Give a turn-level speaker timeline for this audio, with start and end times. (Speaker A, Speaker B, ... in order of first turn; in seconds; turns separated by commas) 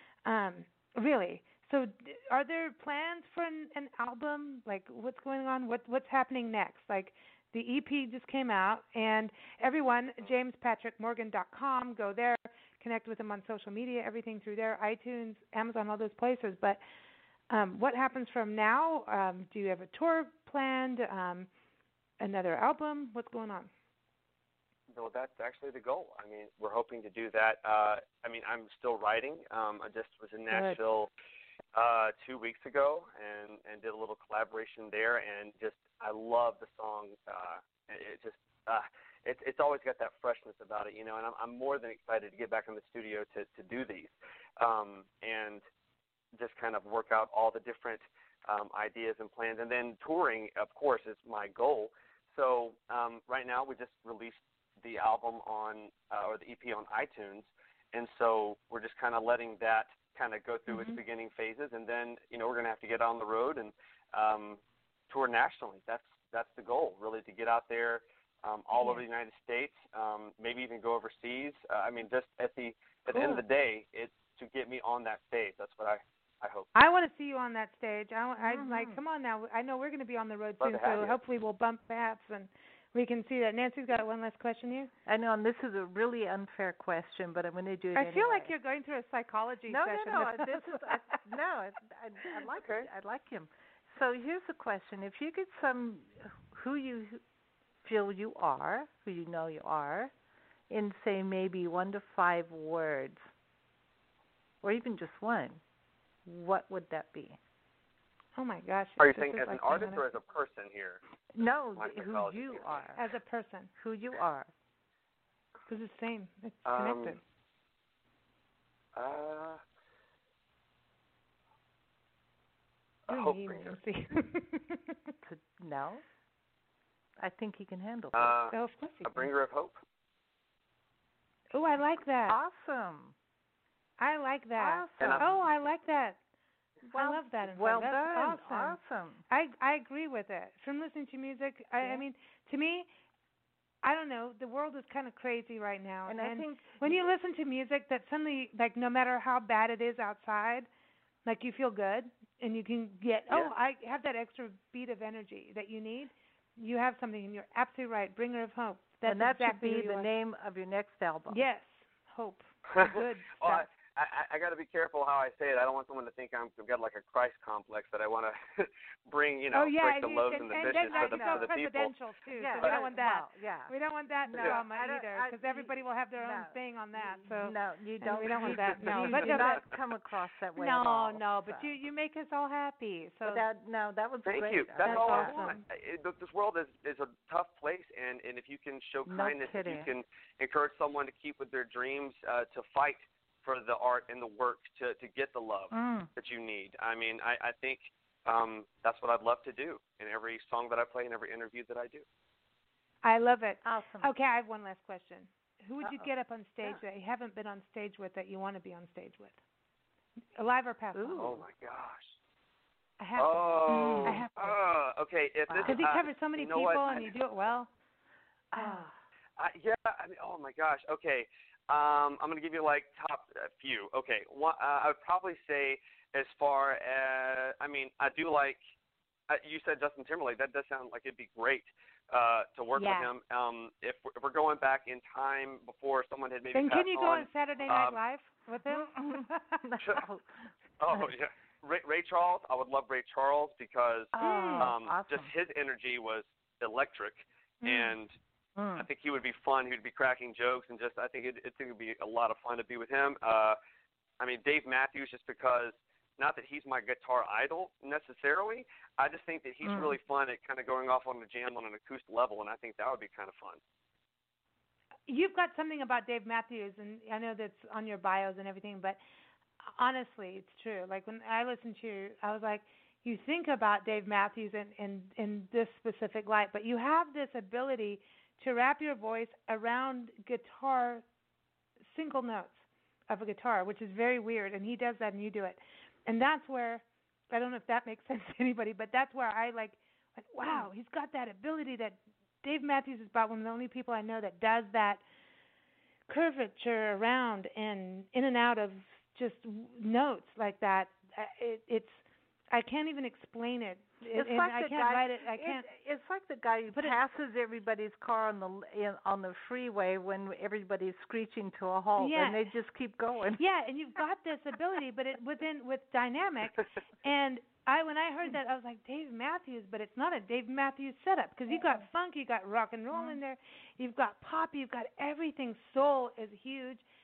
Speaker A: 0.2-16.8, Speaker A: 17.5-21.5, Speaker A: 22.2-23.7, Speaker B: 24.9-31.1, Speaker A: 30.5-30.8, Speaker B: 31.7-45.6, Speaker B: 46.4-76.7, Speaker A: 60.7-61.0, Speaker A: 73.1-73.4, Speaker A: 76.8-84.9, Speaker C: 78.5-79.0, Speaker B: 80.6-81.2, Speaker C: 85.1-88.5, Speaker A: 88.0-91.2, Speaker C: 89.7-97.2, Speaker B: 92.5-92.9, Speaker C: 97.8-100.1, Speaker C: 100.7-103.3, Speaker C: 104.6-105.6, Speaker C: 106.2-107.4, Speaker A: 108.4-110.0, Speaker B: 109.0-111.0, Speaker C: 111.3-113.0, Speaker B: 111.8-112.8, Speaker A: 113.0-113.7, Speaker C: 113.8-114.5, Speaker A: 115.7-117.2, Speaker B: 116.7-117.2, Speaker B: 119.0-119.6, Speaker B: 123.1-123.8, Speaker A: 123.1-125.0, Speaker C: 125.2-126.0, Speaker C: 127.2-128.4, Speaker B: 128.1-129.8, Speaker A: 128.5-129.3, Speaker A: 131.5-132.4, Speaker C: 132.3-133.2, Speaker A: 134.0-136.2, Speaker C: 134.6-135.4, Speaker B: 135.0-135.3, Speaker C: 136.8-139.2, Speaker A: 136.9-138.8, Speaker A: 139.3-142.9, Speaker A: 143.8-150.7, Speaker C: 146.1-147.1, Speaker A: 151.2-160.1, Speaker C: 159.0-161.4, Speaker A: 161.3-163.7, Speaker B: 162.7-171.9, Speaker A: 169.5-179.6, Speaker C: 170.5-171.5, Speaker C: 172.4-181.8, Speaker B: 178.9-179.5, Speaker A: 180.6-183.5, Speaker C: 183.2-185.6, Speaker B: 184.2-202.1, Speaker A: 184.8-185.6, Speaker C: 189.1-189.9, Speaker C: 195.7-196.1, Speaker A: 203.0-209.4, Speaker C: 203.6-204.1, Speaker C: 205.8-206.1, Speaker A: 210.4-211.4, Speaker C: 210.9-211.4, Speaker B: 211.2-212.2, Speaker A: 213.0-214.6, Speaker B: 213.2-217.1, Speaker C: 213.7-214.3, Speaker C: 215.5-215.9, Speaker A: 215.7-217.7, Speaker C: 218.5-218.9, Speaker A: 218.6-218.9, Speaker B: 219.4-228.6, Speaker B: 229.3-238.0, Speaker A: 232.8-233.1, Speaker A: 236.5-239.6, Speaker C: 238.7-240.3, Speaker B: 240.8-248.2, Speaker C: 244.2-245.3, Speaker A: 244.2-244.7, Speaker A: 247.6-247.9, Speaker C: 248.6-248.9, Speaker B: 248.8-253.6, Speaker B: 254.2-263.6, Speaker C: 259.6-259.9, Speaker A: 265.1-269.0, Speaker A: 269.8-281.0, Speaker A: 281.9-295.0, Speaker A: 296.1-305.7, Speaker C: 304.1-313.4, Speaker A: 312.0-312.4, Speaker A: 313.4-326.8, Speaker C: 321.5-321.8, Speaker C: 322.9-323.2